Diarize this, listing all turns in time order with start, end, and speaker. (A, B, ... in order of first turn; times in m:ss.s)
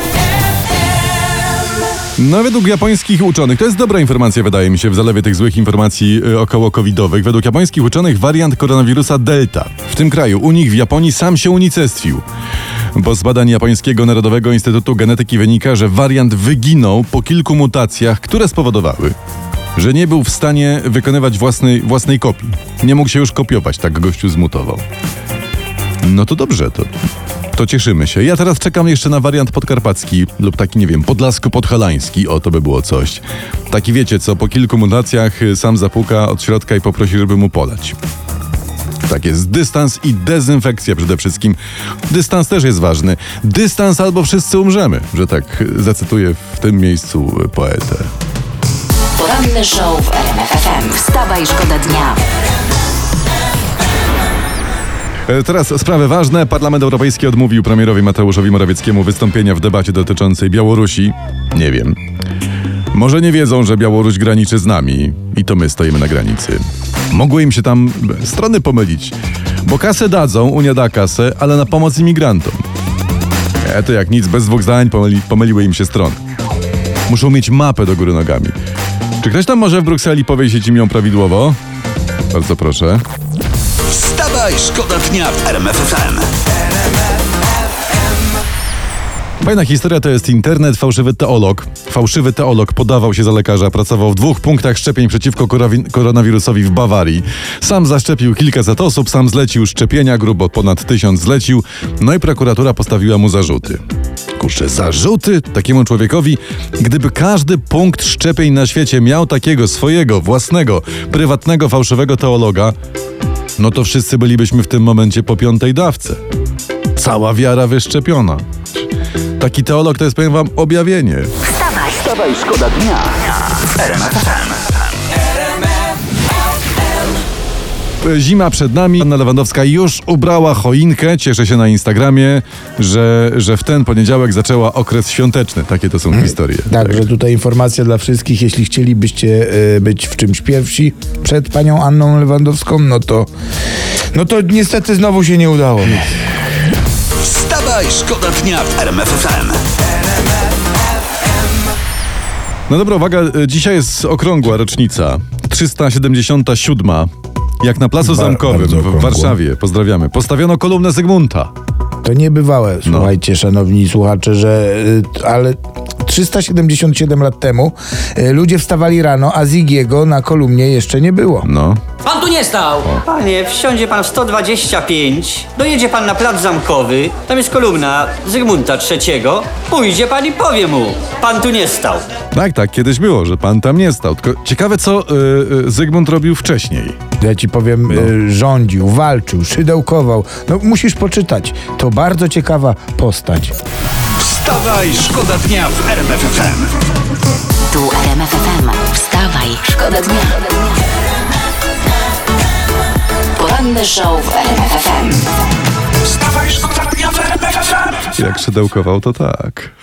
0:02.2-0:12.2 A
0:12.9-0:19.2 A
0:19.8-0:24.8 A
0:26.0-0:26.9 A
0:27.6-0:38.0 A
0:39.0-0:48.1 A
0:49.2-0:52.2 B
0:55.3-1:02.0 A
1:02.9-1:12.6 A
1:13.6-1:16.2 A
1:17.1-1:18.6 A
1:19.2-1:21.6 A
1:22.3-1:23.0 A
1:23.9-1:26.3 C
1:29.4-1:43.8 A
1:44.4-1:52.8 A
1:53.6-1:56.2 A
1:57.0-1:58.4 A
1:59.4-2:01.3 A
2:01.8-2:04.6 C
2:08.0-2:17.0 A
2:16.1-2:23.3 D
2:24.1-2:26.2 D
2:27.2-2:29.6 C
2:32.7-2:37.1 A
2:37.6-2:41.5 A
2:38.0-2:39.4 D
2:42.0-2:51.5 D
2:42.9-2:43.1 A
2:51.4-2:51.8 A
2:52.1-3:02.0 E
3:02.3-3:07.0 A
3:07.2-3:13.6 D
3:14.2-3:16.7 C
3:17.7-3:20.6 B
3:23.4-3:25.3 B
3:28.1-3:29.7 A